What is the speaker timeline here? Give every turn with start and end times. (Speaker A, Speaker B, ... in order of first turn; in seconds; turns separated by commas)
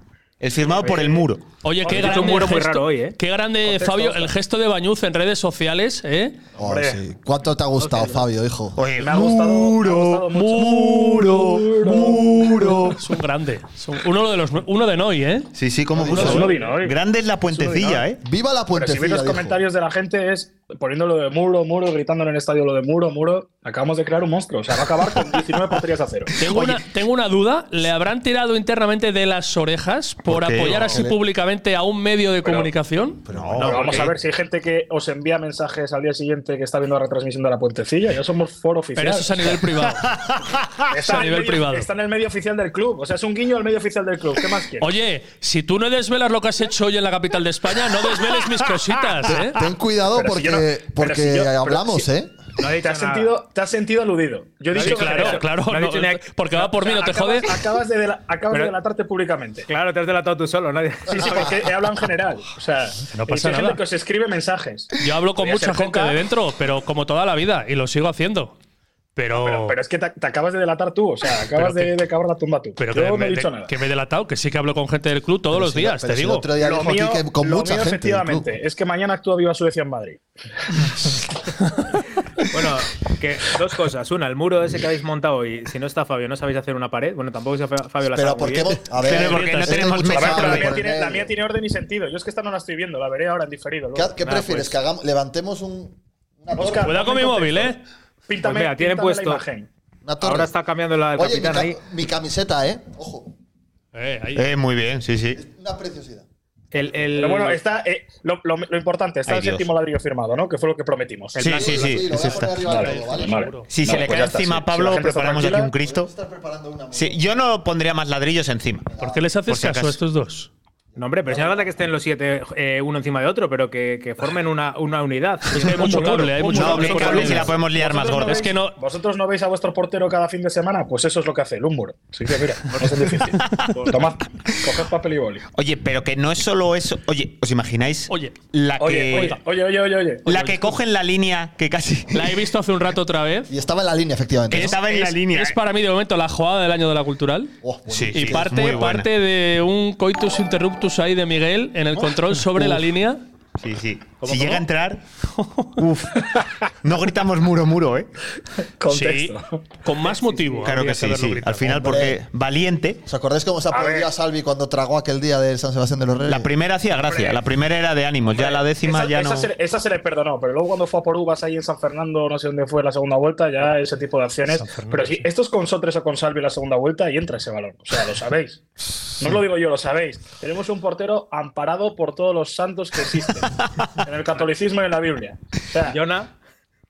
Speaker A: 0.4-1.5, Speaker B: 0.8-1.3, Speaker C: 1.6-6.4, Speaker D: 1.9-2.4, Speaker B: 1.9-3.2, Speaker D: 3.6-4.3, Speaker E: 6.5-8.8, Speaker D: 6.6-7.0, Speaker B: 7.8-8.3, Speaker A: 8.8-13.0, Speaker D: 9.0-12.8, Speaker C: 10.4-11.5, Speaker C: 12.8-15.5, Speaker A: 15.6-18.2, Speaker E: 15.9-16.5, Speaker D: 16.0-17.0, Speaker C: 16.1-16.5, Speaker D: 17.5-18.1, Speaker E: 18.2-19.6, Speaker D: 18.7-26.3, Speaker C: 26.4-34.1, Speaker A: 26.4-26.8, Speaker A: 30.3-31.0, Speaker E: 30.7-31.2, Speaker D: 32.4-32.7, Speaker E: 33.3-33.8, Speaker A: 33.3-34.1, Speaker D: 33.6-39.6, Speaker C: 39.0-40.1, Speaker A: 40.0-40.9, Speaker D: 40.9-44.9, Speaker C: 41.0-41.9, Speaker C: 44.8-49.6, Speaker E: 49.3-52.4, Speaker D: 50.1-52.1, Speaker B: 52.6-53.4, Speaker D: 52.6-55.5, Speaker B: 54.7-56.3, Speaker C: 54.8-57.5, Speaker D: 56.6-59.7, Speaker B: 59.7-61.7, Speaker D: 61.1-66.2, Speaker C: 63.1-63.8, Speaker C: 65.0-68.6, Speaker C: 69.2-69.8, Speaker D: 69.3-73.7, Speaker C: 71.6-72.0, Speaker C: 72.8-76.5, Speaker E: 75.5-78.5, Speaker D: 76.6-80.2, Speaker B: 82.5-88.9, Speaker E: 88.0-91.3, Speaker A: 89.0-90.7, Speaker C: 89.0-90.1, Speaker D: 90.1-94.4, Speaker E: 93.9-97.1, Speaker D: 96.5-97.8, Speaker C: 96.7-97.8, Speaker D: 98.3-99.7, Speaker B: 98.4-99.4, Speaker E: 100.0-100.5, Speaker B: 100.2-101.8, Speaker E: 101.1-103.3, Speaker C: 103.9-104.5, Speaker A: 104.3-105.4, Speaker E: 105.3-106.3, Speaker B: 106.7-107.6, Speaker D: 107.1-115.7, Speaker A: 109.3-109.7, Speaker B: 111.4-111.8, Speaker A: 111.4-112.6, Speaker E: 111.4-113.5, Speaker C: 112.5-113.7, Speaker A: 113.7-116.1, Speaker E: 115.8-117.2, Speaker A: 116.9-118.9, Speaker E: 118.9-119.2, Speaker C: 119.0-120.5, Speaker A: 119.5-120.0, Speaker E: 121.0-121.7, Speaker B: 121.0-127.3, Speaker C: 125.5-127.5, Speaker D: 125.6-135.5, Speaker A: 126.5-128.5, Speaker C: 128.2-128.8, Speaker B: 132.7-134.1, Speaker A: 133.3-133.8, Speaker A: 134.3-134.7, Speaker A: 135.5-139.4, Speaker C: 138.1-138.4, Speaker D: 138.8-140.3, Speaker C: 139.1-139.4, Speaker A: 140.3-142.3, Speaker C: 140.3-140.8, Speaker C: 142.1-143.5, Speaker E: 143.5-144.8, Speaker A: 144.5-145.6, Speaker C: 144.5-147.5, Speaker E: 147.6-148.8, Speaker A: 147.9-149.1, Speaker C: 148.1-153.2, Speaker A: 153.6-155.0, Speaker B: 154.2-154.6, Speaker C: 155.4-155.7, Speaker A: 155.8-156.3, Speaker A: 156.8-158.1, Speaker D: 158.8-160.7, Speaker C: 158.9-162.0, Speaker A: 160.6-163.0, Speaker E: 161.8-162.2, Speaker E: 163.1-166.5, Speaker D: 163.7-164.1, Speaker A: 166.3-169.5, Speaker D: 166.9-167.4, Speaker D: 168.3-186.0, Speaker C: 174.5-175.3, Speaker B: 185.9-186.3